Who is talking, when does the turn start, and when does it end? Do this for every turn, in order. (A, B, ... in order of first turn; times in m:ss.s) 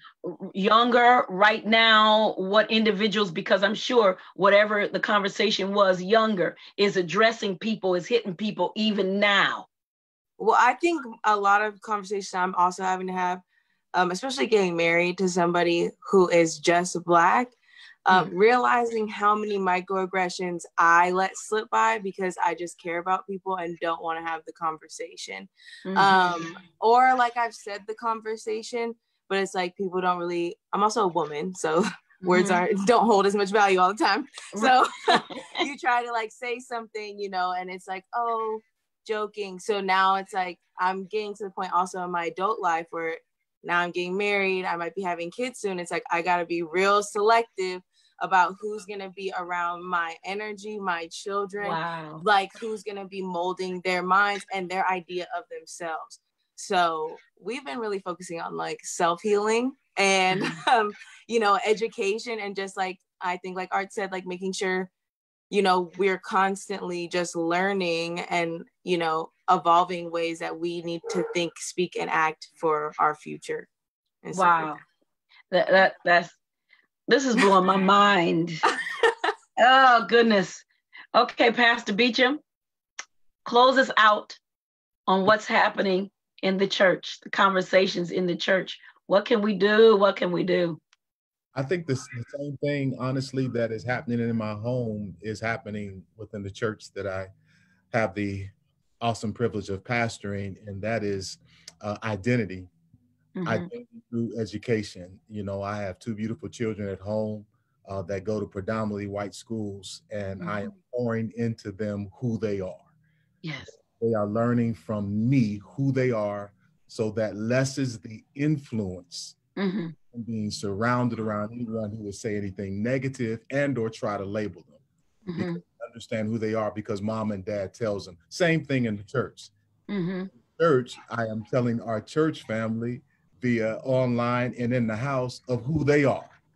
0:00.2-0:09.7 A
0:10.4-1:04.9 B
0:25.8-0:26.6 A
0:32.2-0:32.6 A
0:34.5-0:35.6 A
0:51.6-0:52.2 A
1:00.3-1:00.6 A
1:05.5-1:13.7 B
1:14.2-1:14.8 B
1:14.3-1:14.8 A
1:15.5-1:16.3 A
1:17.1-1:18.6 A
1:18.7-1:19.3 B
1:19.6-1:22.4 A
1:23.4-1:24.4 A
1:25.1-1:30.8 A
1:31.5-1:37.3 C
1:37.9-1:42.7 C
1:43.4-1:43.7 A
1:43.4-1:52.9 C
1:50.4-1:50.7 A
1:53.4-1:53.8 A
1:53.7-1:59.4 C
1:59.6-2:00.0 A
2:00.1-2:04.8 C
2:05.3-2:05.6 A
2:05.3-2:09.5 C
2:09.9-2:10.3 A
2:10.4-2:16.3 C